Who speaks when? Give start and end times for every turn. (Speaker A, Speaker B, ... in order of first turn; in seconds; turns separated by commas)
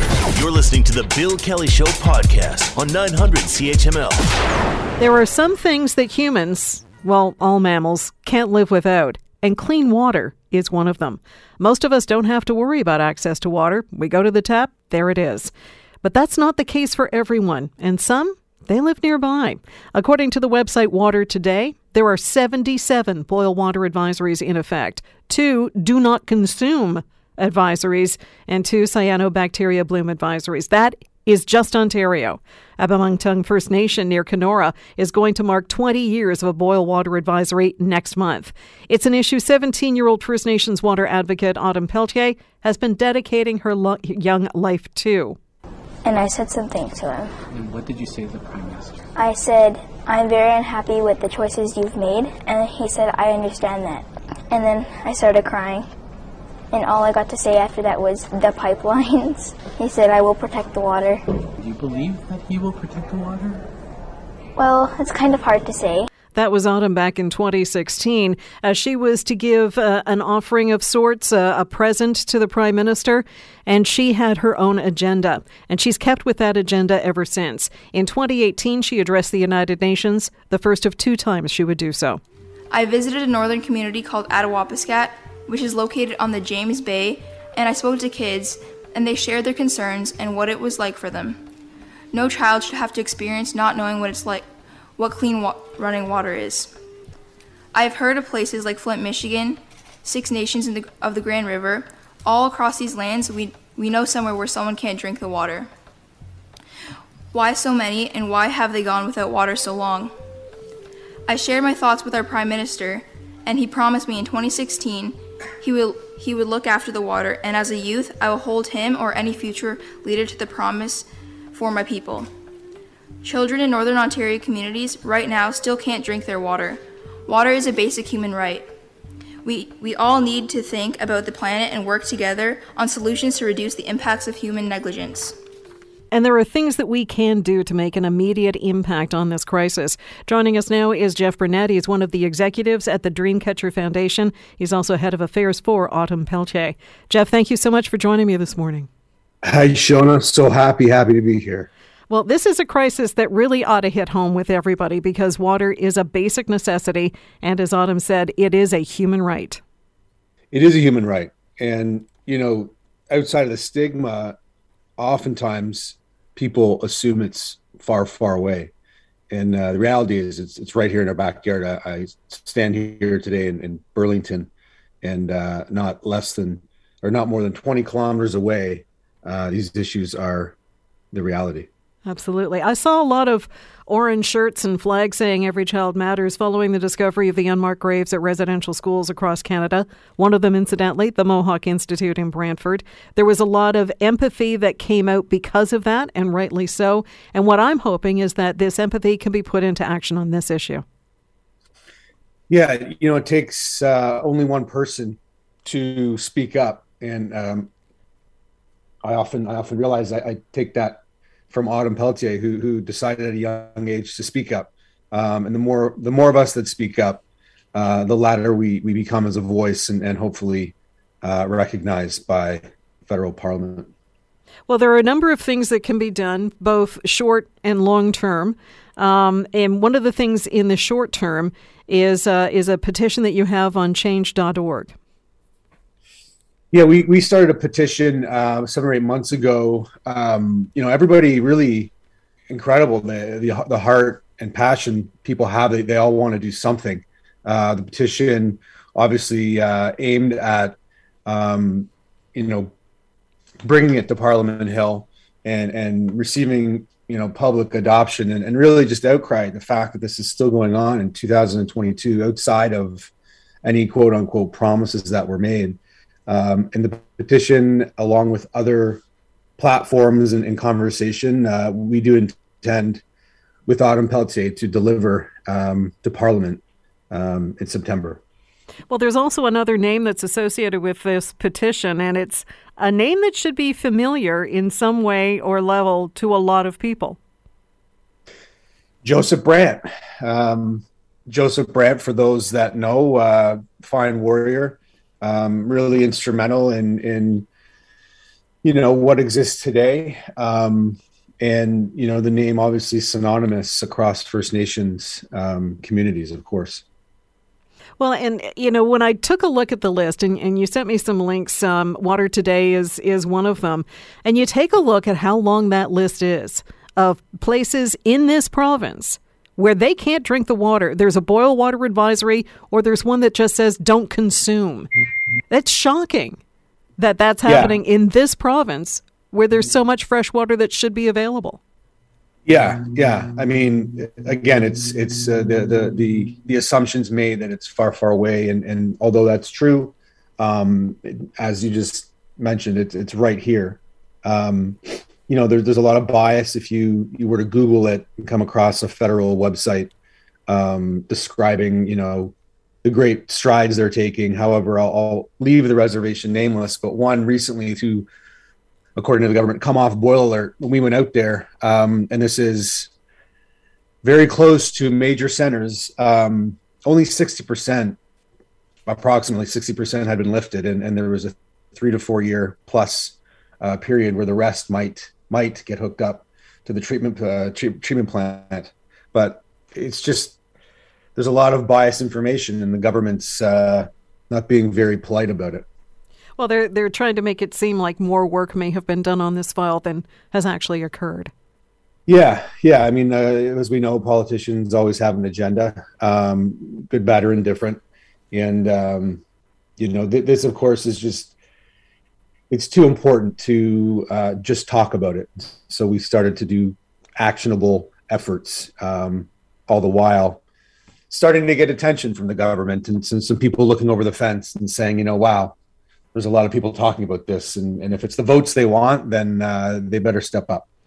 Speaker A: 0.3-4.3, Speaker B: 5.0-15.5, Speaker B: 16.0-45.4, Speaker C: 46.0-47.3, Speaker D: 47.5-49.1, Speaker C: 49.2-55.9, Speaker C: 56.7-61.2, Speaker D: 61.6-63.7, Speaker C: 64.6-66.1, Speaker B: 66.3-82.2, Speaker E: 82.7-91.4, Speaker E: 92.1-94.5, Speaker E: 95.0-96.7, Speaker E: 97.7-105.7, Speaker E: 107.3-110.1, Speaker E: 111.3-122.3, Speaker E: 123.2-128.7, Speaker E: 129.4-135.4, Speaker B: 136.1-148.9, Speaker F: 149.4-151.7, Speaker B: 152.1-159.6, Speaker F: 160.5-164.4, Speaker F: 165.0-168.7, Speaker F: 169.3-174.5, Speaker F: 175.0-180.6, Speaker F: 181.1-181.7, Speaker B: 182.1-200.8, Speaker F: 202.5-207.7, Speaker F: 209.0-211.0, Speaker F: 211.5-217.2, Speaker F: 217.8-223.9, Speaker B: 224.7-234.9, Speaker F: 236.7-241.9, Speaker F: 242.5-252.7, Speaker F: 253.6-263.1, Speaker F: 263.6-269.0, Speaker F: 269.6-273.0, Speaker F: 273.7-278.2, Speaker B: 278.9-287.2, Speaker F: 289.0-297.5, Speaker F: 298.6-306.8, Speaker B: 308.0-324.9, Speaker B: 325.5-326.4, Speaker B: 327.0-331.6, Speaker F: 327.4-327.8, Speaker F: 332.5-349.9, Speaker F: 350.5-358.1, Speaker F: 359.0-362.9, Speaker F: 364.0-368.0, Speaker F: 368.9-380.4, Speaker F: 381.2-385.6, Speaker B: 386.4-391.3, Speaker F: 392.1-399.2, Speaker F: 399.8-401.3, Speaker F: 402.5-410.4, Speaker F: 411.1-415.6, Speaker F: 416.1-420.6